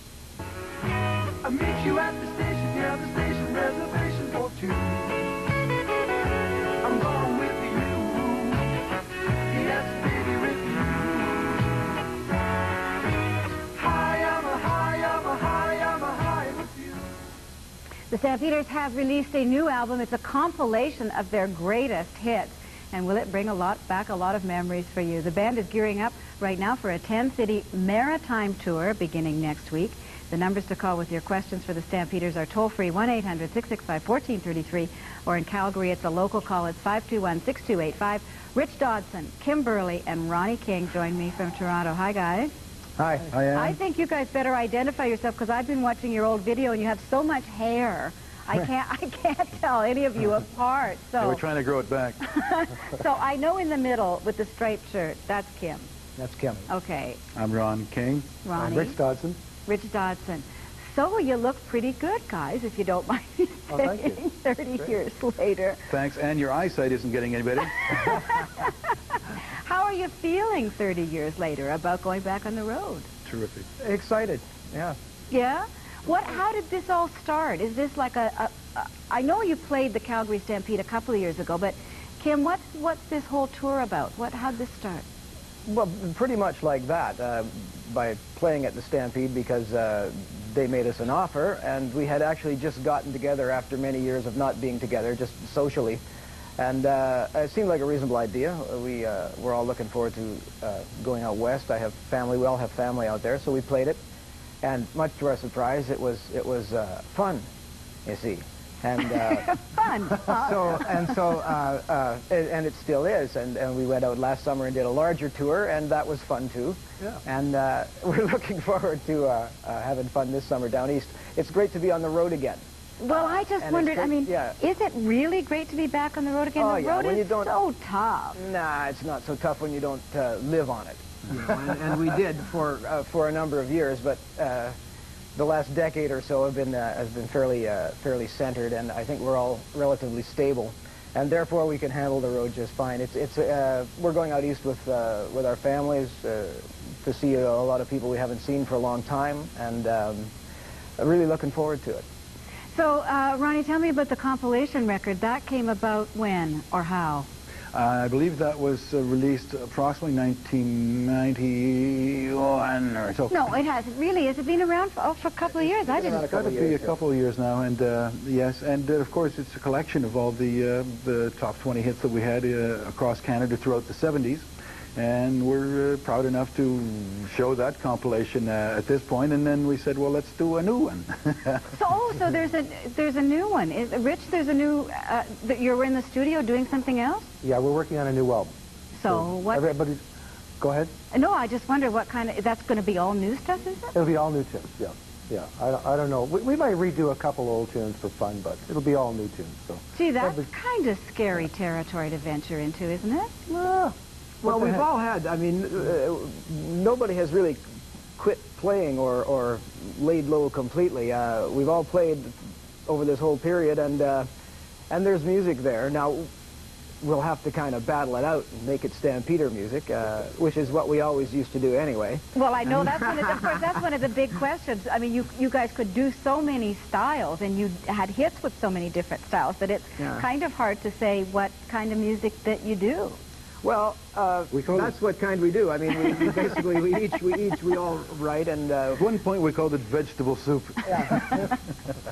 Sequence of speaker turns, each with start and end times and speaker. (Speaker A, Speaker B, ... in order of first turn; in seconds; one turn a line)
Speaker A: 1.4-2.3
Speaker B: 1.8-4.5
Speaker A: 3.4-5.5
Speaker A: 6.8-12.0
Speaker B: 6.9-8.5
Speaker B: 9.7-11.2
Speaker A: 13.7-14.8
Speaker B: 13.8-17.0
Speaker A: 15.5-17.1
Speaker C: 18.1-42.5
Speaker D: 43.0-43.3
Speaker B: 43.3-43.8
Speaker C: 43.5-51.4
Speaker B: 51.2-52.2
Speaker C: 52.2-55.9
Speaker D: 56.2-56.7
Speaker C: 56.7-57.2
Speaker B: 57.4-58.3
Speaker C: 58.4-59.0
Speaker E: 58.6-59.4
Speaker C: 59.7-65.8
Speaker E: 63.7-64.2
Speaker B: 65.9-68.2
Speaker C: 67.9-73.1
Speaker B: 73.2-73.7
Speaker D: 73.8-75.0
Speaker C: 75.3-85.0
Speaker D: 85.7-96.0
Speaker D: 96.6-104.0
Speaker D: 104.6-107.5
Speaker D: 108.0-124.6
Speaker C: 109.1-110.9
Speaker C: 123.0-128.4
Speaker D: 126.6-127.5
Speaker D: 128.3-134.8
Speaker D: 135.3-150.3
Speaker D: 151.0-152.0
Speaker C: 152.7-157.3
Speaker B: 157.7-163.5
Speaker C: 163.3-166.2
Speaker D: 165.6-167.0
Speaker B: 166.0-181.7
Speaker C: 181.7-187.3
Speaker E: 187.4-188.5
Speaker C: 188.9-189.7
Speaker E: 189.1-190.0
Speaker E: 190.6-190.9
Speaker C: 191.1-194.0
Speaker E: 193.9-200.5
Speaker C: 199.9-203.3
Speaker E: 203.5-204.8
Speaker D: 204.4-207.6
Speaker D: 208.2-214.3
Speaker D: 214.9-216.3
Speaker D: 217.0-223.7
Speaker C: 222.3-233.2
Speaker D: 230.0-230.3
Speaker D: 233.6-239.0
Speaker B: 234.5-234.9
Speaker B: 239.0-241.6
Speaker C: 241.1-241.4